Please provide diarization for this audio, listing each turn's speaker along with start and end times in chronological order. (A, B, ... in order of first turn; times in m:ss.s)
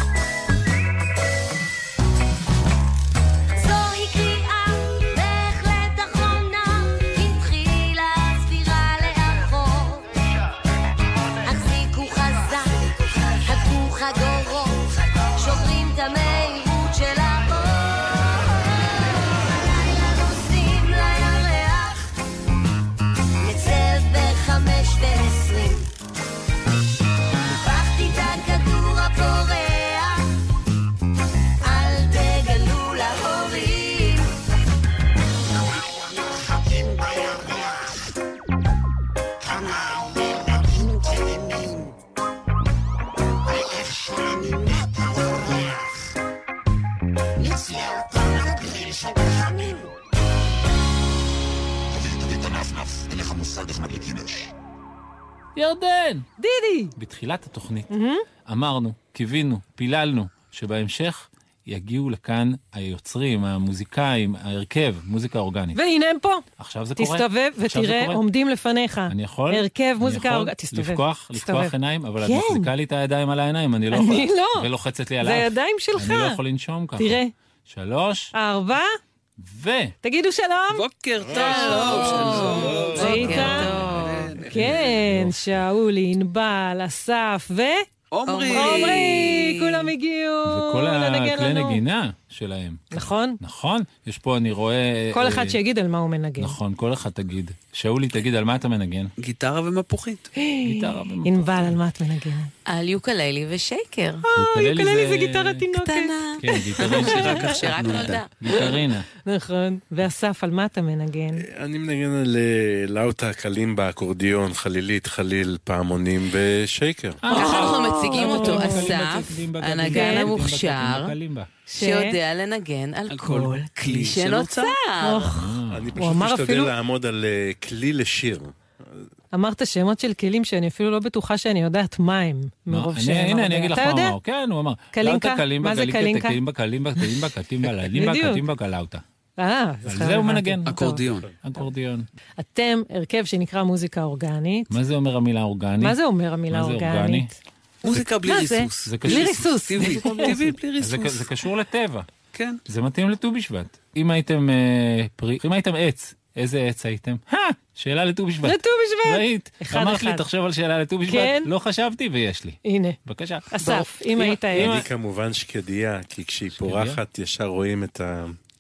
0:03.6-0:10.0 A
0:11.4-0:12.7 A
0:13.4-0:18.6 A
0:19.5-0:22.0 A
0:23.4-0:25.9 A
0:27.5-0:30.2 A
0:31.6-0:34.2 A
0:55.6-0:56.3 B
0:56.4-0:56.9 C
0:57.0-0:57.9 B
0:57.9-0:58.2 C
0:58.5-1:05.8 B
1:05.8-1:06.4 C
1:06.6-1:08.2 B
1:07.0-1:12.7 C
1:09.1-1:18.3 B
1:13.9-1:14.7 C
1:15.2-1:16.4 C
1:17.0-1:17.3 C
1:18.3-1:18.9 C
1:19.4-1:20.0 B
1:20.0-1:23.8 C
1:20.7-1:24.7 D
1:21.4-1:24.4 E
1:24.5-1:27.8 C
1:24.7-1:25.4 B
1:28.1-1:29.0 D
1:28.3-1:29.9 E
1:28.5-1:31.8 C
1:30.5-1:35.6 B
1:32.9-1:33.4 C
1:35.1-1:36.6 C
1:36.4-1:39.1 B
1:39.2-1:40.3 D
1:40.4-1:42.5 C
1:40.6-1:41.7 B
1:42.7-1:44.2 E
1:44.2-1:46.2 C
1:44.4-1:45.7 B
1:45.7-1:48.6 E
1:46.4-1:49.0 B
1:46.8-1:47.6 C
1:47.2-1:48.2 D
1:49.2-1:51.4 C
1:51.4-1:57.2 F
1:57.2-2:01.5 B
1:57.3-2:01.1 E
1:57.3-1:59.0 C
1:59.9-2:00.3 C
2:01.7-2:05.3 E
2:01.8-2:02.2 C
2:03.1-2:04.8 D
2:05.0-2:06.7 C
2:05.4-2:05.9 B
2:05.7-2:08.6 F
2:09.3-2:14.2 C
2:12.7-2:19.0 B
2:14.9-2:16.4 C
2:17.9-2:18.4 C
2:19.4-2:21.0 C
2:19.9-2:20.8 B
2:20.7-2:21.3 D
2:21.4-2:22.1 B
2:22.4-2:24.7 C
2:24.7-2:26.0 B
2:25.8-2:30.5 C
2:26.5-2:27.3 B
2:27.8-2:31.3 D
2:28.8-2:32.1 B
2:32.3-2:32.6 D
2:32.7-2:44.9 B
2:38.4-2:40.2 C
2:41.1-2:41.5 C
2:42.6-2:43.0 C
2:43.5-2:44.9 C
2:44.5-2:48.4 F
2:46.6-2:47.0 B